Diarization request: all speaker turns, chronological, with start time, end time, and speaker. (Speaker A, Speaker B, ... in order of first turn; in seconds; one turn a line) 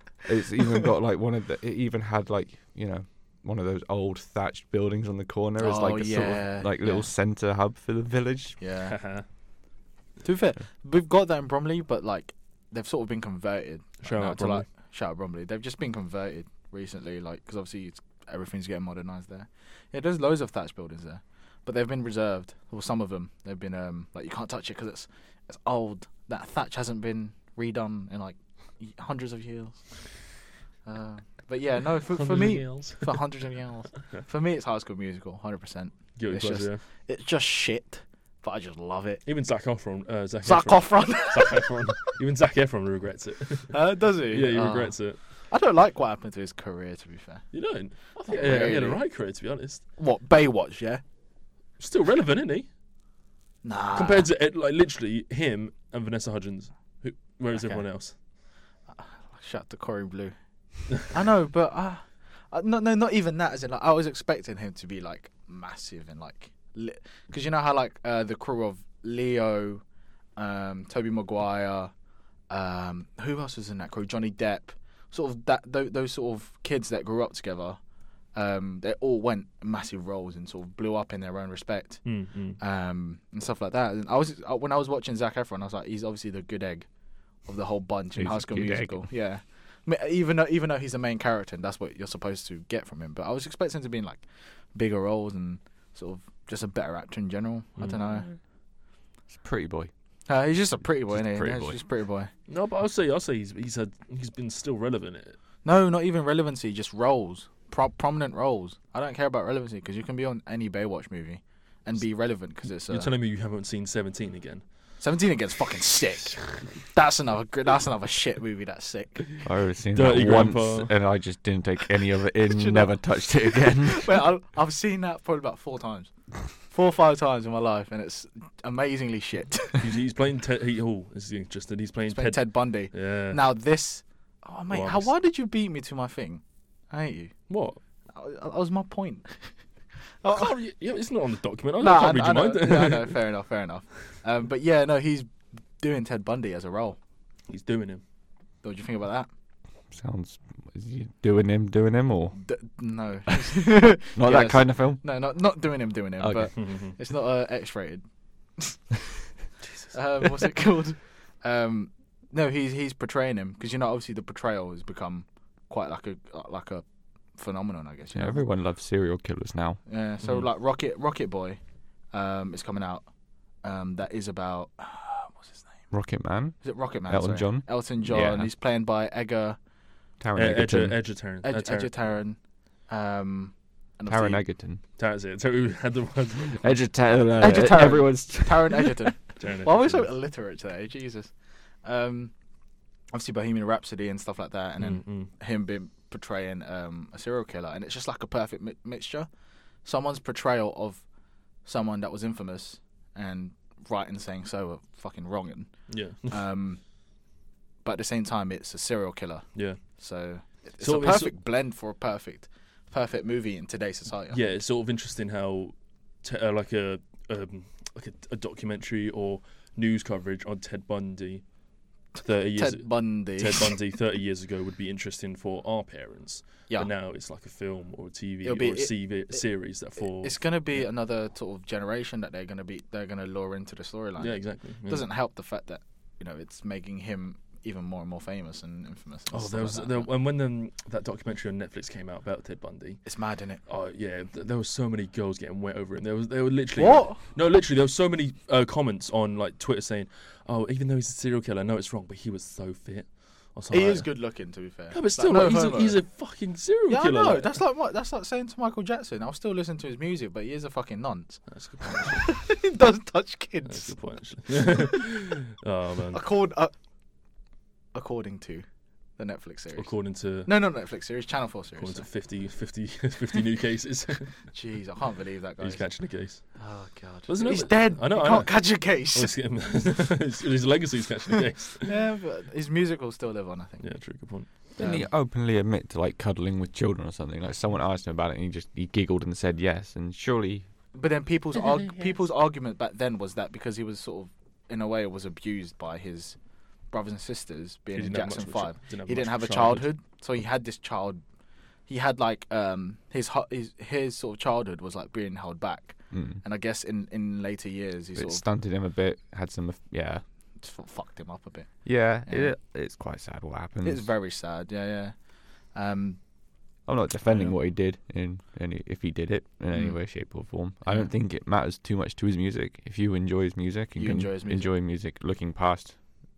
Speaker A: 0.2-8.6
Speaker B: 5.6-7.1
Speaker B: 8.6-9.0
Speaker C: 8.8-9.2
Speaker B: 10.2-30.0
Speaker C: 14.0-14.7
Speaker B: 30.9-39.2
Speaker C: 32.1-33.2
Speaker C: 36.1-36.8
Speaker C: 39.2-45.2
Speaker B: 40.4-42.1
Speaker B: 43.7-47.4
Speaker C: 47.5-49.8
Speaker B: 48.2-49.0
Speaker B: 50.0-51.0
Speaker C: 51.8-52.7
Speaker B: 53.6-54.3
Speaker C: 53.9-58.1
Speaker B: 57.5-57.8
Speaker B: 58.9-60.3
Speaker B: 60.9-69.8
Speaker B: 70.4-71.9
Speaker B: 72.5-77.8
Speaker B: 78.3-86.9
Speaker C: 82.0-82.6
Speaker B: 87.4-98.3
Speaker A: 88.2-89.1
Speaker A: 98.0-98.3
Speaker A: 99.3-99.9
Speaker B: 100.3-102.3
Speaker A: 101.1-101.8
Speaker C: 102.5-105.4
Speaker B: 105.6-113.1
Speaker C: 112.9-114.6
Speaker B: 115.0-119.3
Speaker A: 119.4-124.2
Speaker C: 119.9-120.9
Speaker B: 122.5-129.9
Speaker C: 129.8-133.4
Speaker B: 132.1-137.3
Speaker C: 134.7-135.1
Speaker C: 137.5-137.8
Speaker B: 138.1-139.6
Speaker B: 140.2-140.5
Speaker C: 140.2-143.2
Speaker B: 141.8-147.0
Speaker C: 147.5-148.0
Speaker B: 148.6-149.3
Speaker A: 149.9-152.4
Speaker B: 152.4-158.0
Speaker A: 154.1-155.0
Speaker A: 156.2-156.5
Speaker C: 156.5-156.9
Speaker B: 158.6-158.8
Speaker B: 159.9-168.5
Speaker A: 168.1-169.8
Speaker B: 169.9-171.6
Speaker C: 170.2-170.5
Speaker B: 172.1-173.1
Speaker B: 173.6-175.8
Speaker A: 175.9-178.5
Speaker B: 176.6-179.6
Speaker A: 180.2-181.0
Speaker C: 180.3-181.9
Speaker B: 181.4-184.4
Speaker A: 184.1-184.8
Speaker C: 185.0-186.7
Speaker A: 186.6-189.1
Speaker B: 187.4-191.3
Speaker C: 189.4-190.1
Speaker B: 191.8-192.3
Speaker B: 193.1-199.3
Speaker C: 194.8-195.3
Speaker B: 199.8-201.0
Speaker B: 201.6-206.8
Speaker C: 205.9-206.4
Speaker B: 207.8-214.4
Speaker C: 209.5-209.8
Speaker C: 210.8-211.3
Speaker C: 214.3-221.4
Speaker C: 222.1-230.4
Speaker B: 222.6-223.7
Speaker B: 228.4-229.4
Speaker B: 230.0-240.1
Speaker C: 234.2-235.1
Speaker C: 239.3-243.1
Speaker B: 243.0-243.6
Speaker C: 243.7-254.2
Speaker B: 246.8-247.2
Speaker B: 253.7-256.0
Speaker C: 254.9-257.6
Speaker B: 256.9-264.0
Speaker C: 261.5-262.4
Speaker C: 263.6-266.2
Speaker B: 264.5-265.0
Speaker B: 266.1-266.7
Speaker B: 267.9-268.6
Speaker B: 269.2-272.1
Speaker C: 269.8-270.5
Speaker C: 271.8-274.5
Speaker B: 274.5-275.9
Speaker C: 275.6-276.6
Speaker B: 276.5-279.3
Speaker C: 277.3-281.9
Speaker B: 281.8-283.9
Speaker C: 283.8-284.5
Speaker B: 284.8-285.1
Speaker A: 284.8-290.7
Speaker B: 290.9-296.4
Speaker C: 291.5-292.2
Speaker B: 296.9-301.2
Speaker C: 297.9-299.9
Speaker B: 301.9-308.4
Speaker A: 306.1-306.4
Speaker A: 308.1-310.2
Speaker B: 310.6-312.5
Speaker A: 311.8-314.1
Speaker B: 313.8-315.1
Speaker B: 315.7-316.2
Speaker A: 316.9-326.0
Speaker B: 317.2-317.5
Speaker B: 319.7-320.0
Speaker B: 320.8-321.1
Speaker B: 323.9-324.7